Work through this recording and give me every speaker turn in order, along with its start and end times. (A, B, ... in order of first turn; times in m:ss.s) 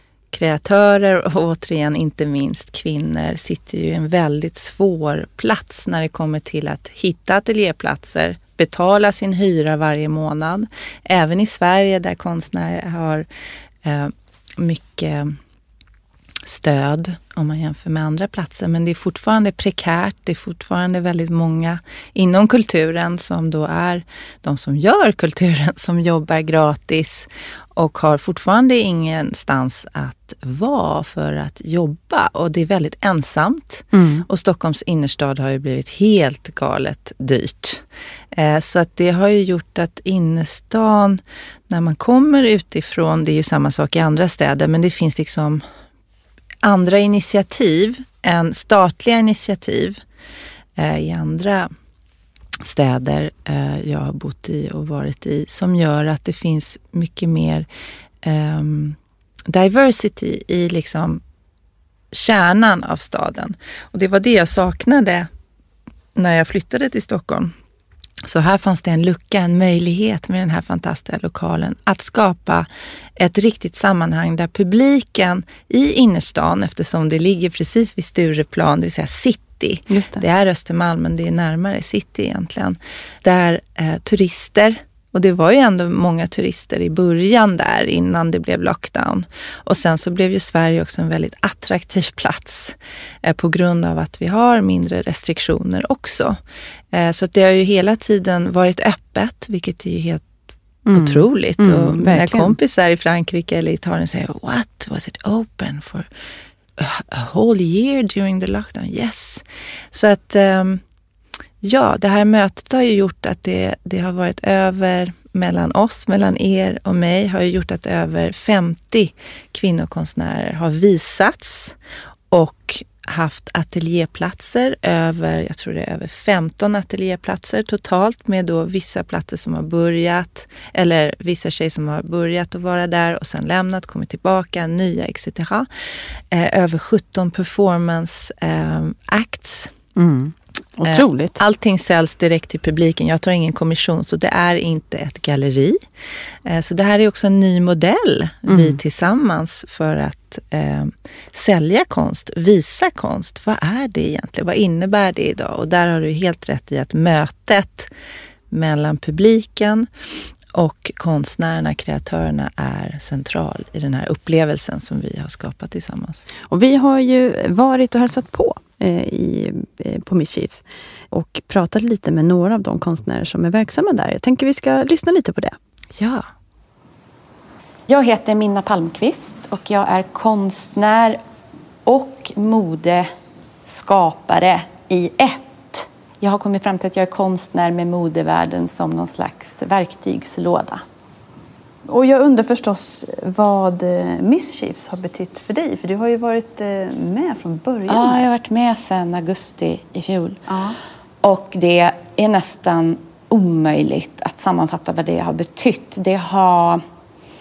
0:00.3-0:13.3 A
0:13.8-0:15.4 A
0:16.4-0:45.6 A
0:33.9-0:34.2 B
0:46.6-0:50.0 A
0:50.8-0:51.7 A
0:52.6-0:57.7 A
0:58.2-1:01.2 A
1:02.1-1:05.3 A
1:06.2-1:07.5 A
1:08.3-1:36.4 A
1:19.9-1:20.2 B
1:36.9-1:40.3 A
1:40.9-1:42.6 B
1:40.9-1:46.1 A
1:46.8-1:50.8 A
1:51.6-2:01.8 A
2:02.3-2:15.7 A
2:16.3-2:19.7 A
2:20.0-2:21.4 B
2:20.8-2:25.8 A
2:26.4-2:37.9 A
2:28.5-2:28.8 B
2:38.5-2:39.9 A
2:40.5-2:46.2 A
2:46.5-2:55.6 B
2:56.0-2:56.3 A
2:57.9-3:01.2 C
3:01.8-3:03.1 C
3:03.7-3:10.8 C
3:11.8-3:18.2 B
3:17.9-3:20.4 C
3:20.5-3:20.8 B
3:21.2-3:26.8 C